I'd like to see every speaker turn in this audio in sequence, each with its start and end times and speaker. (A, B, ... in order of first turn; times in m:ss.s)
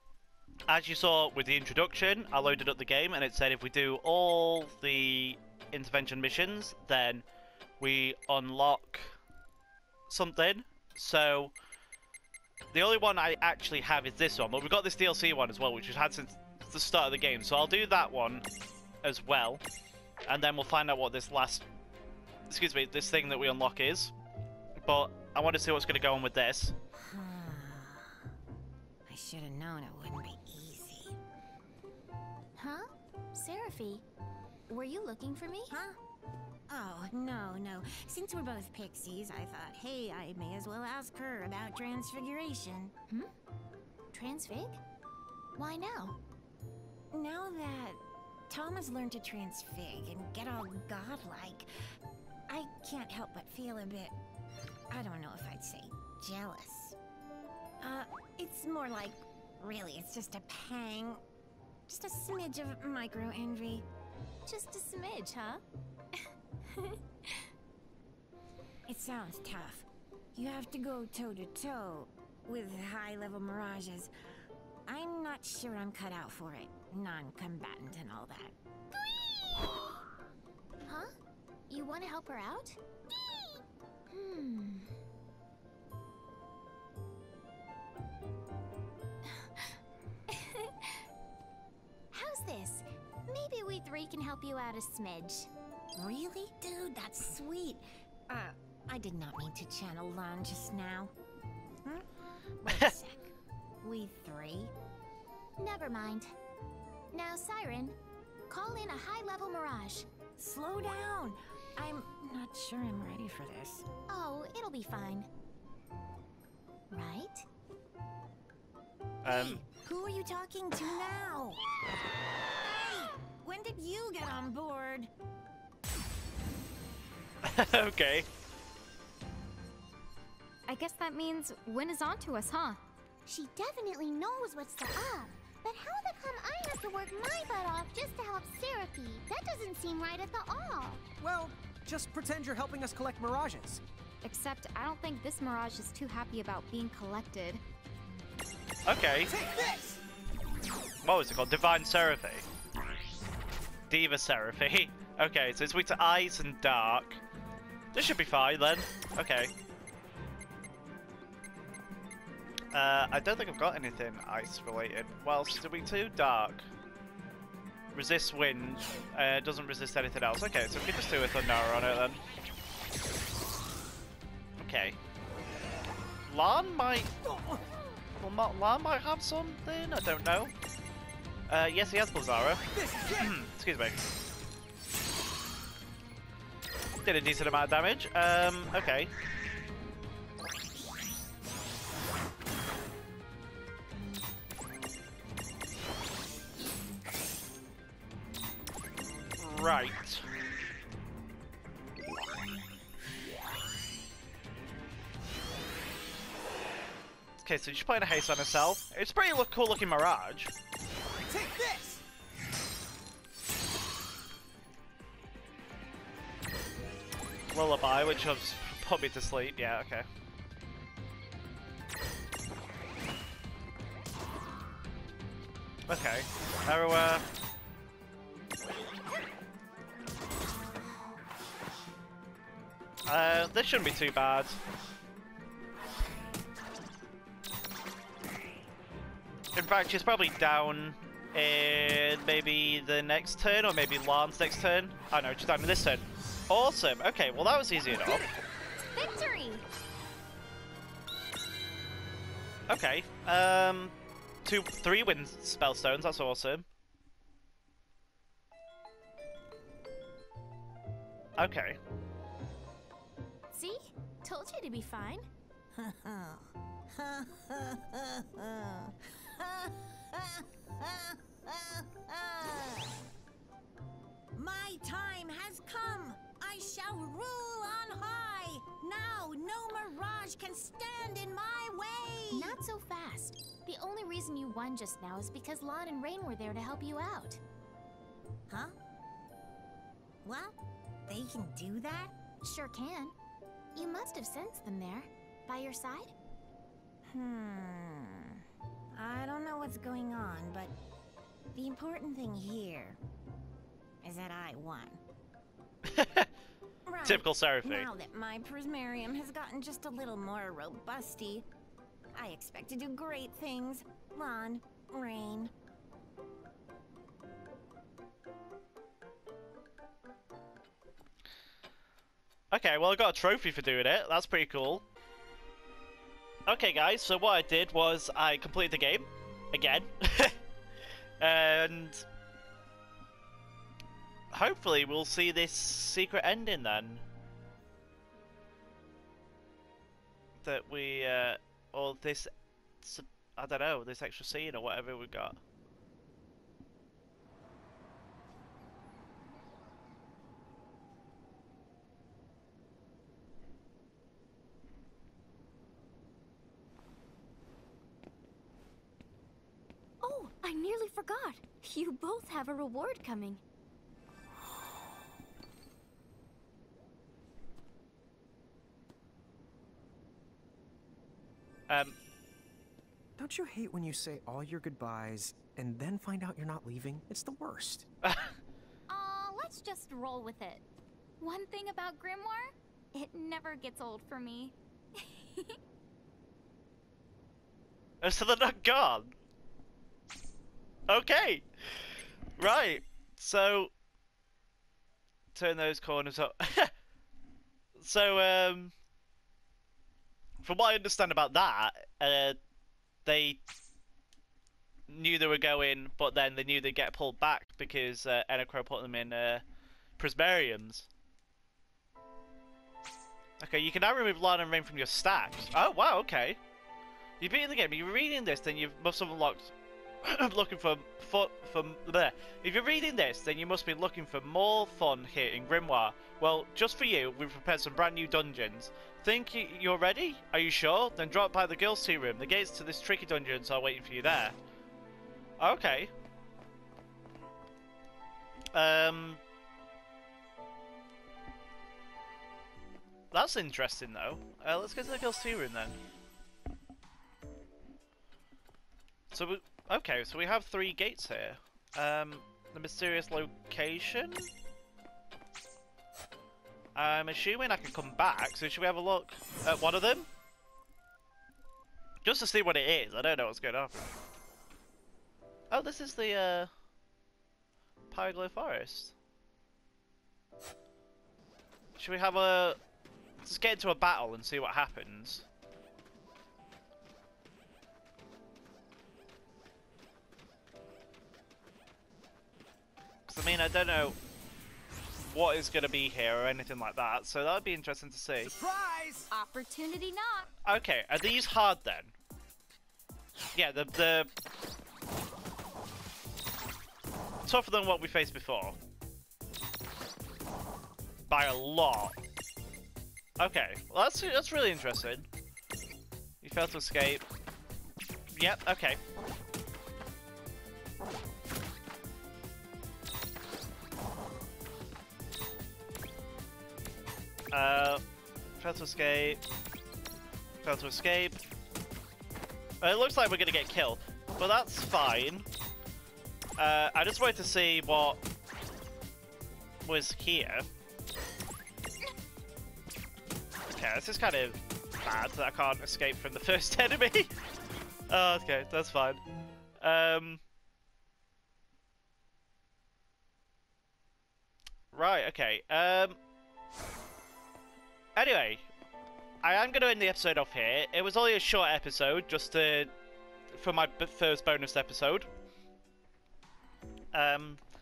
0:00.7-0:07.2 A
0:07.8-0:09.2 A
0:10.1-0:11.5 A
0:12.7-0:18.4 A
0:19.0-0:19.6 A
0:20.3-0:21.6 A
0:22.5-0:24.1 A
0:24.8-0:26.7 A
0:27.1-0:28.2 B
0:29.1-0:31.2 B
0:32.6-0:34.0 C
0:34.7-0:35.7 C
0:35.7-0:36.0 B
0:36.7-0:42.9 B
0:44.1-0:44.8 C
0:45.6-0:46.2 C
0:47.1-0:51.7 B
0:52.5-0:54.2 B
0:54.9-0:57.0 B
0:57.8-1:01.2 B
1:01.9-1:03.8 B
1:04.4-1:05.6 C
1:06.7-1:07.4 C
1:08.9-1:14.1 B
1:14.9-1:18.5 B
1:20.8-1:21.1 C
1:21.7-1:22.8 C
1:24.1-1:24.9 C
1:29.2-1:29.8 C
1:30.3-1:31.0 C
1:32.1-1:35.5 C
1:36.0-1:41.1 B
1:42.6-1:44.7 B
1:45.6-1:46.3 C
1:47.1-1:48.0 C
1:48.5-1:50.1 C
1:50.4-1:53.8 B
1:54.1-1:55.3 C
1:56.9-1:57.4 C
1:59.2-1:59.6 A
1:59.2-2:01.6 B
2:02.6-2:05.1 B
2:07.4-2:08.3 A
2:10.7-2:12.8 D
2:13.2-2:21.0 C
2:21.2-2:23.8 E
2:24.2-2:27.6 D
2:28.8-2:29.3 A
2:29.3-2:30.0 E
2:31.0-2:32.4 A
2:33.9-2:37.2 A
2:37.9-2:39.5 A
2:42.7-2:46.7 A
2:47.9-2:52.2 A
2:54.6-2:55.0 A
2:56.3-2:57.1 A
2:58.2-3:00.5 A
3:01.5-3:04.0 A
3:07.0-3:09.1 A
3:19.4-3:20.3 A
3:27.4-3:30.5 A
3:31.2-3:32.0 E
3:37.5-3:40.1 A
3:45.9-3:47.2 A
3:53.0-3:54.6 A
3:59.5-4:08.3 A
4:08.9-4:09.6 D
4:12.7-4:16.6 A
4:21.4-4:21.8 A
4:23.5-4:25.2 C
4:25.7-4:33.0 B
4:34.3-4:42.6 B
4:42.3-4:47.4 C
4:48.5-4:48.7 B
4:50.2-4:50.6 B
4:51.1-4:52.1 B
4:52.4-4:53.2 C
4:53.7-4:56.1 C
4:57.1-4:58.4 B
4:58.9-5:00.7 B
5:01.5-5:03.0 B
5:04.0-5:05.0 B
5:05.9-5:06.3 A
5:06.8-5:11.4 B
5:07.0-5:07.9 A
5:12.1-5:15.5 B
5:22.5-5:24.8 A
5:26.5-5:30.4 A
5:31.2-5:32.0 A
5:34.3-5:37.0 A
5:40.4-5:42.3 A
5:42.8-5:45.4 A
6:00.0-6:03.4 D
6:11.7-6:12.0 A
6:13.2-6:17.8 E
6:18.0-6:18.4 A
6:18.9-6:20.6 D
6:21.2-6:24.5 D
6:25.1-6:25.4 D
6:28.0-6:29.1 A
6:30.9-6:31.8 A
6:32.4-6:33.7 A
6:35.3-6:36.7 A
6:37.8-6:38.7 A
6:40.4-6:42.4 A
6:43.0-6:43.4 A
6:44.9-6:49.4 A
6:50.0-6:50.9 A
6:53.4-6:56.4 A
6:57.2-7:14.4 A
7:15.4-7:15.9 A
7:18.5-7:19.2 A
7:23.1-7:25.8 A
7:29.1-7:34.3 A
7:36.8-7:40.1 A
7:42.0-7:43.9 A
7:45.5-7:46.5 A
7:47.9-7:48.9 A
7:51.8-7:52.6 A
7:53.2-7:55.2 A
8:03.1-8:04.0 A
8:05.0-8:08.3 A
8:08.4-8:09.1 E
8:09.1-8:10.3 D
8:10.4-8:11.9 A
8:13.3-8:14.1 A
8:17.2-8:18.6 A
8:21.1-8:22.0 A
8:23.2-8:25.1 A
8:26.2-8:27.0 A
8:28.1-8:28.8 A
8:37.3-8:37.8 A
8:38.4-8:39.2 A
8:40.4-8:41.2 A
8:42.6-8:45.2 A
8:46.4-8:48.0 A
8:49.6-8:50.5 A
8:53.5-8:57.1 A
8:57.9-8:59.0 A
8:59.6-9:00.2 A
9:04.7-9:06.0 A
9:08.0-9:08.4 A
9:09.2-9:12.7 A
9:13.3-9:15.1 A
9:16.9-9:17.4 A